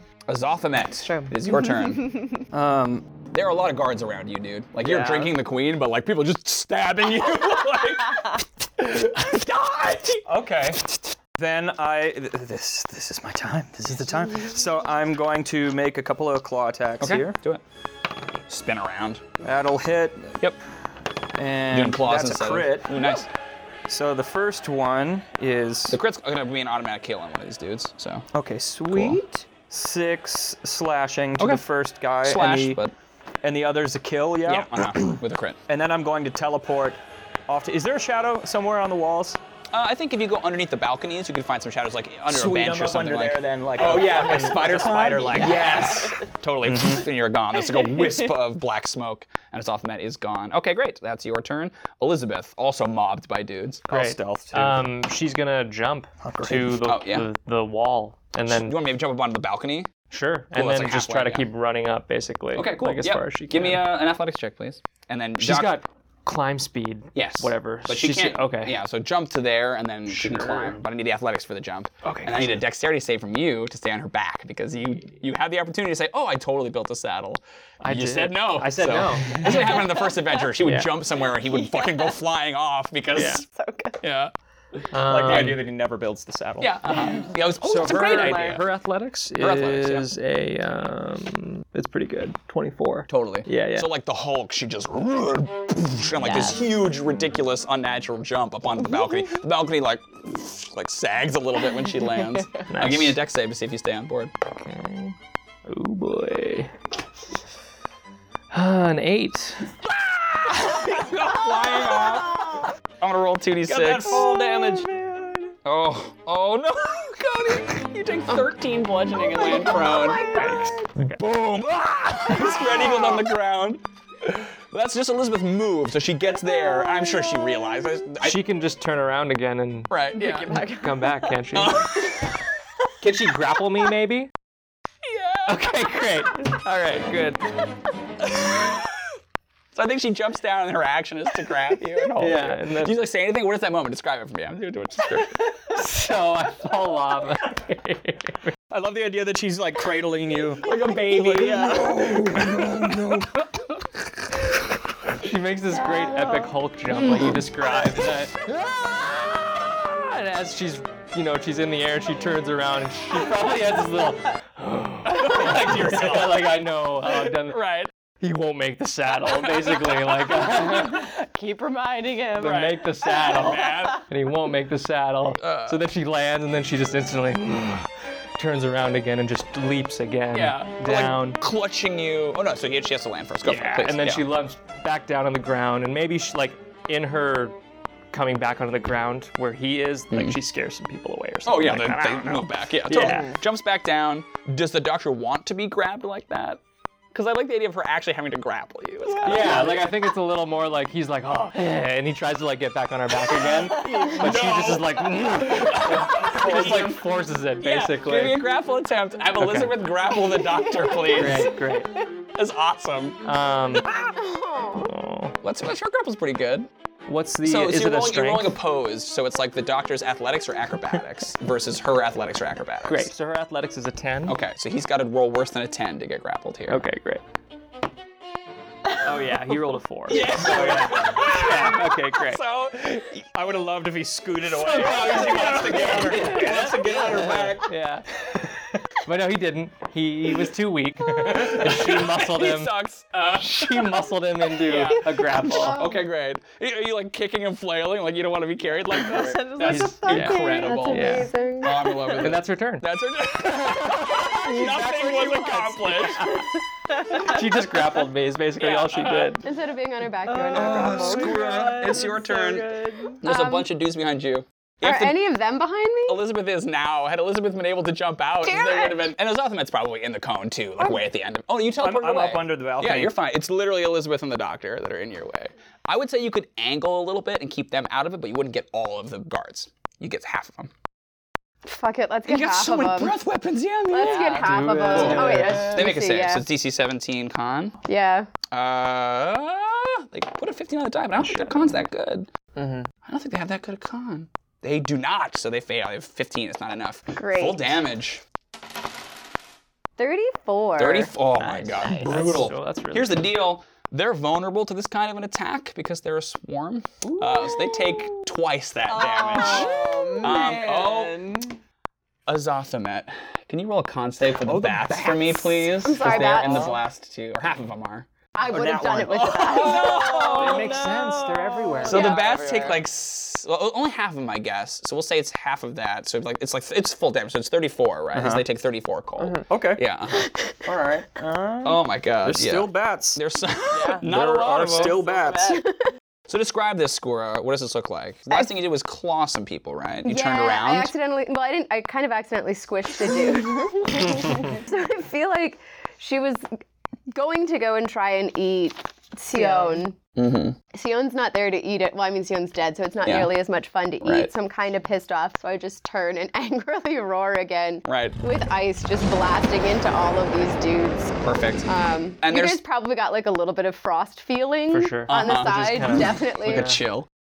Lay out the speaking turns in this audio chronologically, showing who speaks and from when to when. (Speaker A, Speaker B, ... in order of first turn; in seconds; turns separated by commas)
Speaker A: 0.3-2.2, Speaker B: 1.0-2.3, Speaker C: 2.5-3.0, Speaker A: 3.3-10.3, Speaker B: 4.8-5.3, Speaker C: 10.3-17.4, Speaker A: 17.0-17.6, Speaker A: 18.5-19.2, Speaker C: 19.4-20.4, Speaker C: 21.4-23.0, Speaker A: 21.7-23.3, Speaker C: 23.9-26.0, Speaker A: 25.9-28.3, Speaker C: 28.3-32.8, Speaker A: 28.9-29.2, Speaker A: 31.4-31.6, Speaker A: 32.2-32.9, Speaker C: 33.4-39.4, Speaker A: 34.5-35.6, Speaker A: 39.7-53.9, Speaker C: 42.3-46.0, Speaker B: 45.4-46.2, Speaker C: 46.6-47.1, Speaker B: 47.7-48.3, Speaker C: 53.9-54.9, Speaker D: 53.9-58.8, Speaker C: 56.2-56.8, Speaker A: 56.9-57.3, Speaker A: 58.5-59.9, Speaker D: 60.1-63.9, Speaker A: 60.5-61.5, Speaker A: 62.5-65.8, Speaker D: 65.4-68.8, Speaker A: 67.2-83.4, Speaker D: 70.1-70.8, Speaker D: 72.0-72.6, Speaker D: 77.8-79.8, Speaker B: 79.5-80.2, Speaker D: 80.6-80.9, Speaker B: 81.3-82.1, Speaker D: 83.2-83.4, Speaker B: 83.4-84.0, Speaker A: 84.0-84.3, Speaker D: 84.9-85.7, Speaker C: 85.0-86.8, Speaker A: 85.3-85.5, Speaker A: 86.6-88.6, Speaker D: 87.6-93.9, Speaker B: 87.8-88.6, Speaker A: 89.4-90.1, Speaker A: 93.1-104.3, Speaker B: 96.2-96.7, Speaker D: 102.7-103.2, Speaker D: 104.5-105.2, Speaker D: 105.7-106.7, Speaker D: 108.5-109.7, Speaker A: 110.1-114.3, Speaker C: 113.7-115.5, Speaker A: 115.7-128.4, Speaker E: 119.3-120.8, Speaker D: 120.3-121.2, Speaker B: 122.3-123.2, Speaker D: 128.2-129.9, Speaker A: 129.9-130.5, Speaker B: 130.2-131.4, Speaker D: 130.5-131.9, Speaker A: 131.5-132.4, Speaker D: 133.0-134.3, Speaker A: 135.0-136.1, Speaker D: 135.5-137.5, Speaker A: 138.2-139.0, Speaker A: 139.7-145.4, Speaker D: 142.2-143.0, Speaker D: 145.7-148.5, Speaker C: 148.7-153.4, Speaker A: 150.6-153.2, Speaker B: 151.3-151.9, Speaker D: 155.2-158.4, Speaker A: 157.1-157.4, Speaker D: 159.8-167.6, Speaker A: 165.1-167.9, Speaker D: 168.2-171.1, Speaker A: 169.3-170.0, Speaker B: 170.6-174.0, Speaker D: 172.4-177.9, Speaker A: 173.3-174.0, Speaker A: 175.4-175.8, Speaker D: 178.4-181.4, Speaker A: 180.3-184.2, Speaker D: 183.4-187.6, Speaker D: 188.1-193.3, Speaker A: 190.1-190.4, Speaker A: 191.5-196.6, Speaker B: 192.9-193.4, Speaker A: 197.1-199.8, Speaker B: 199.1-199.7, Speaker D: 199.2-208.4, Speaker A: 203.7-211.6, Speaker B: 203.7-204.2, Speaker D: 209.4-209.8, Speaker B: 210.4-211.5, Speaker D: 211.1-211.9, Speaker A: 212.3-213.2, Speaker D: 213.2-213.9, Speaker E: 213.9-214.9, Speaker D: 214.8-215.4, Speaker A: 215.4-216.7, Speaker D: 217.1-218.5, Speaker A: 217.4-223.1, Speaker D: 222.8-224.4, Speaker A: 224.3-226.8, Speaker D: 226.7-227.2, Speaker D: 229.0-232.4, Speaker A: 230.1-233.1, Speaker C: 230.1-231.8, Speaker C: 232.8-237.6, Speaker D: 234.6-236.7, Speaker A: 234.6-237.7, Speaker D: 237.6-242.7, Speaker A: 241.1-244.1, Speaker D: 243.3-245.8, Speaker A: 244.6-256.4, Speaker E: 245.4-246.0, Speaker B: 248.9-250.6, Speaker D: 249.6-251.3, Speaker E: 250.1-252.3, Speaker D: 252.2-252.9, Speaker D: 253.4-256.5, Speaker B: 256.9-257.5, Speaker D: 257.1-259.5, Speaker A: 258.6-259.4, Speaker E: 259.4-261.7, Speaker B: 260.3-263.2, Speaker A: 260.5-265.2, Speaker E: 263.2-263.7, Speaker E: 264.8-266.2, Speaker A: 266.1-280.7, Speaker E: 268.4-269.1, Speaker C: 271.8-273.2, Speaker E: 281.7-283.2, Speaker A: 282.3-287.8, Speaker E: 283.9-286.4, Speaker B: 284.0-285.2, Speaker D: 284.4-285.8, Speaker E: 287.9-288.3, Speaker A: 288.5-292.3, Speaker D: 291.2-291.6, Speaker B: 292.6-292.9, Speaker A: 293.1-298.2, Speaker E: 297.1-297.8, Speaker E: 300.0-301.1, Speaker A: 300.8-311.2, Speaker D: 301.4-303.3, Speaker B: 308.9-311.6, Speaker A: 312.3-318.1, Speaker C: 314.4-315.6, Speaker E: 315.7-316.8, Speaker B: 316.1-316.8, Speaker E: 318.4-320.2, Speaker C: 318.5-319.7, Speaker A: 319.1-320.8, Speaker B: 319.5-322.8, Speaker D: 320.3-322.3, Speaker A: 321.8-330.3, Speaker C: 328.1-328.4, Speaker C: 329.5-329.8, Speaker E: 330.2-330.5, Speaker C: 330.7-333.2, Speaker A: 331.6-335.0, Speaker B: 333.7-334.1, Speaker C: 334.0-335.6, Speaker B: 334.7-335.7, Speaker E: 335.5-335.8, Speaker A: 336.3-340.9, Speaker E: 340.1-346.5, Speaker E: 347.1-350.0, Speaker B: 349.3-349.8, Speaker A: 350.1-350.6, Speaker E: 350.7-366.8, Speaker A: 353.0-353.3, Speaker A: 354.0-354.3, Speaker A: 357.9-358.2, Speaker A: 361.2-361.7, Speaker A: 362.2-362.6, Speaker D: 364.7-366.8, Speaker A: 365.1-367.1